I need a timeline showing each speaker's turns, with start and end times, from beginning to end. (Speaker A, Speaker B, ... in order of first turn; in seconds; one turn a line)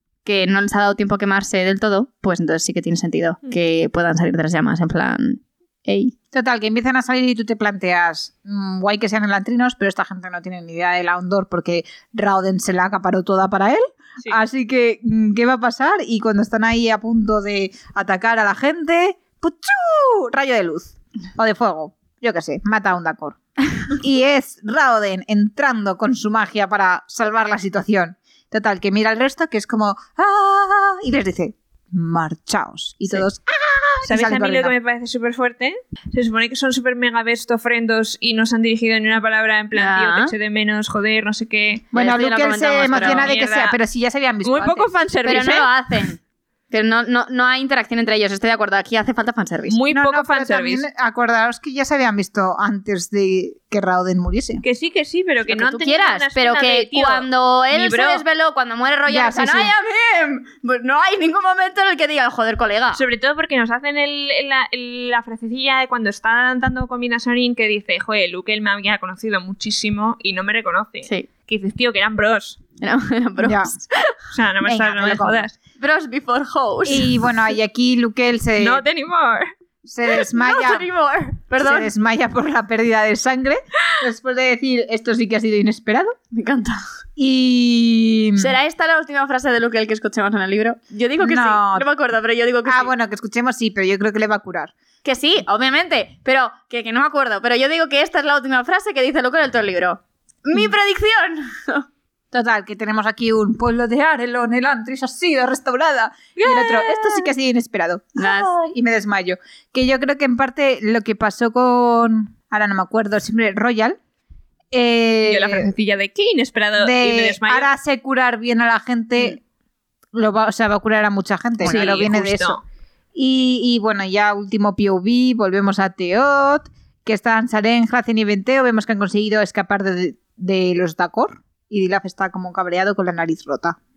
Speaker A: 0.2-6.1
Speaker B: 6.3-34.7
Speaker C: 34.0-41.9
Speaker A: 39.7-40.3
Speaker A: 41.9-43.3
Speaker B: 41.9-44.9
Speaker C: 42.8-43.8
Speaker C: 44.4-45.7
Speaker A: 45.2-49.8
Speaker C: 49.7-50.8
Speaker B: 49.9-54.6
Speaker C: 54.6-58.2
Speaker A: 55.5-63.0
Speaker B: 59.1-59.7
Speaker C: 62.9-72.6
Speaker A: 71.0-71.3
Speaker A: 72.8-74.2
Speaker B: 73.4-73.7
Speaker C: 74.3-75.5
Speaker B: 74.7-75.5
Speaker A: 75.8-77.5
Speaker B: 76.8-78.8
Speaker C: 78.6-79.5
Speaker B: 79.8-80.9
Speaker A: 80.2-81.9
Speaker B: 81.6-86.2
Speaker A: 86.3-86.8
Speaker B: 87.2-88.5
Speaker A: 88.4-92.9
Speaker B: 91.2-91.9
Speaker B: 92.7-94.7
Speaker A: 95.0-101.9
Speaker B: 102.3-114.0
Speaker C: 106.4-107.3
Speaker A: 108.2-108.7
Speaker B: 114.7-115.7
Speaker C: 115.3-117.7
Speaker B: 116.8-119.4
Speaker B: 120.1-122.6
Speaker A: 121.6-122.0
Speaker C: 121.6-122.6
Speaker B: 123.1-133.8